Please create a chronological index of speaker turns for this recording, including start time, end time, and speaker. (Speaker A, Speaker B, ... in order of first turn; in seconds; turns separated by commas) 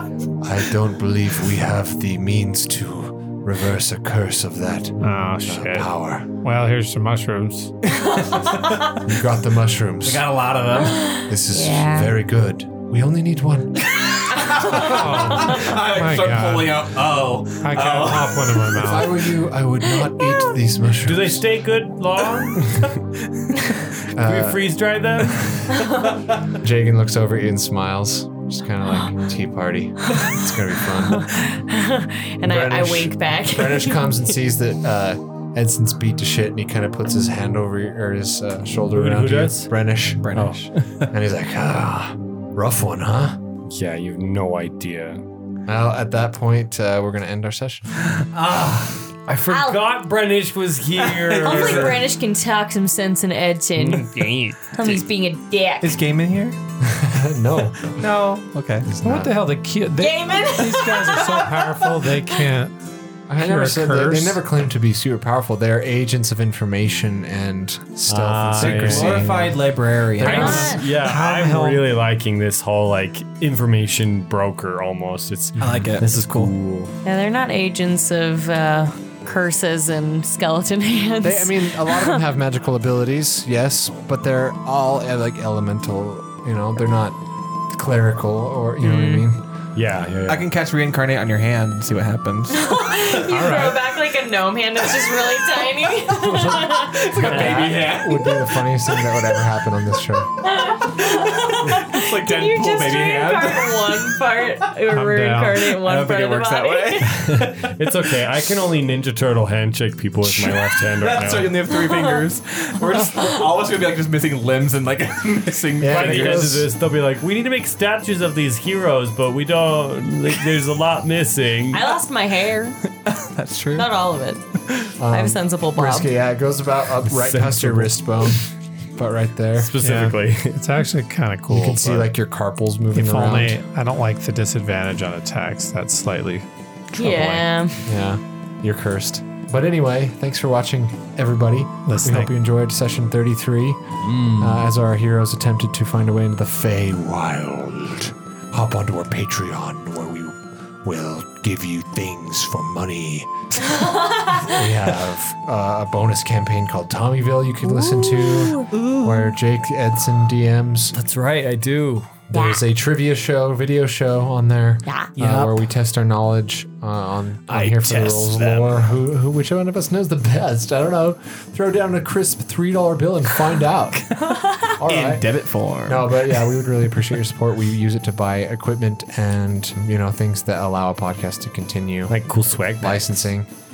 Speaker A: 0.4-6.3, Speaker B: 5.0-7.7, Speaker C: 7.9-9.0, Speaker A: 9.0-10.2, Speaker C: 10.0-11.1, Speaker D: 10.9-12.1, Speaker A: 11.2-13.9, Speaker C: 13.9-18.8, Speaker D: 14.3-15.0, Speaker B: 14.7-16.8, Speaker B: 17.6-19.3, Speaker A: 18.7-21.4, Speaker E: 21.0-23.0, Speaker E: 24.0-25.7, Speaker A: 24.1-24.7, Speaker C: 26.0-26.4, Speaker A: 26.5-31.3, Speaker D: 31.1-34.2, Speaker A: 32.4-40.5, Speaker E: 38.9-39.7, Speaker C: 40.2-41.1, Speaker E: 40.3-40.7, Speaker A: 41.1-43.4, Speaker E: 43.7-45.2, Speaker A: 45.7-47.9, Speaker C: 48.1-49.0, Speaker E: 49.3-51.9, Speaker D: 49.5-49.8, Speaker C: 51.0-52.0, Speaker D: 51.4-54.1, Speaker E: 53.8-55.0, Speaker D: 54.7-56.0, Speaker C: 55.8-56.6, Speaker A: 56.8-58.0, Speaker C: 58.0-58.9, Speaker A: 58.9-59.4, Speaker B: 59.0-62.7, Speaker D: 60.0-61.6, Speaker A: 63.3-69.6, Speaker B: 63.4-64.4, Speaker E: 68.1-69.2, Speaker C: 68.5-70.9, Speaker D: 70.2-70.8, Speaker A: 70.2-70.5, Speaker B: 70.2-71.8, Speaker E: 70.5-76.9, Speaker C: 75.6-76.5, Speaker D: 77.0-82.2, Speaker A: 81.2-87.2, Speaker A: 87.7-89.4, Speaker D: 88.8-89.2, Speaker E: 89.7-90.5, Speaker C: 90.3-93.2, Speaker D: 92.5-97.6, Speaker B: 93.3-93.8, Speaker C: 96.4-98.4, Speaker E: 97.2-97.7, Speaker A: 97.3-100.3, Speaker D: 100.4-107.3, Speaker C: 101.0-104.0, Speaker B: 104.9-105.7, Speaker C: 105.7-107.7, Speaker E: 107.1-111.6, Speaker C: 110.2-116.6, Speaker A: 115.8-116.7, Speaker E: 115.9-121.8, Speaker D: 121.7-122.8, Speaker C: 123.0-123.9, Speaker D: 123.8-124.4, Speaker A: 125.0-129.7, Speaker D: 125.1-126.1, Speaker E: 127.1-127.9, Speaker E: 129.6-130.6, Speaker B: 129.8-132.1, Speaker A: 131.5-133.6, Speaker B: 132.9-137.4, Speaker D: 136.9-137.9, Speaker A: 137.8-153.3, Speaker B: 141.8-142.3, Speaker E: 144.1-144.5, Speaker D: 153.7-154.5, Speaker A: 154.3-160.9, Speaker D: 157.6-158.7, Speaker C: 158.7-159.3, Speaker E: 160.9-162.1, Speaker A: 162.3-174.1, Speaker D: 162.3-162.6, Speaker D: 164.8-165.1, Speaker C: 165.2-165.6, Speaker E: 167.5-168.8, Speaker C: 167.5-168.5, Speaker C: 174.0-176.6, Speaker A: 174.8-175.2, Speaker A: 175.8-182.1, Speaker E: 182.1-183.1, Speaker A: 182.8-183.5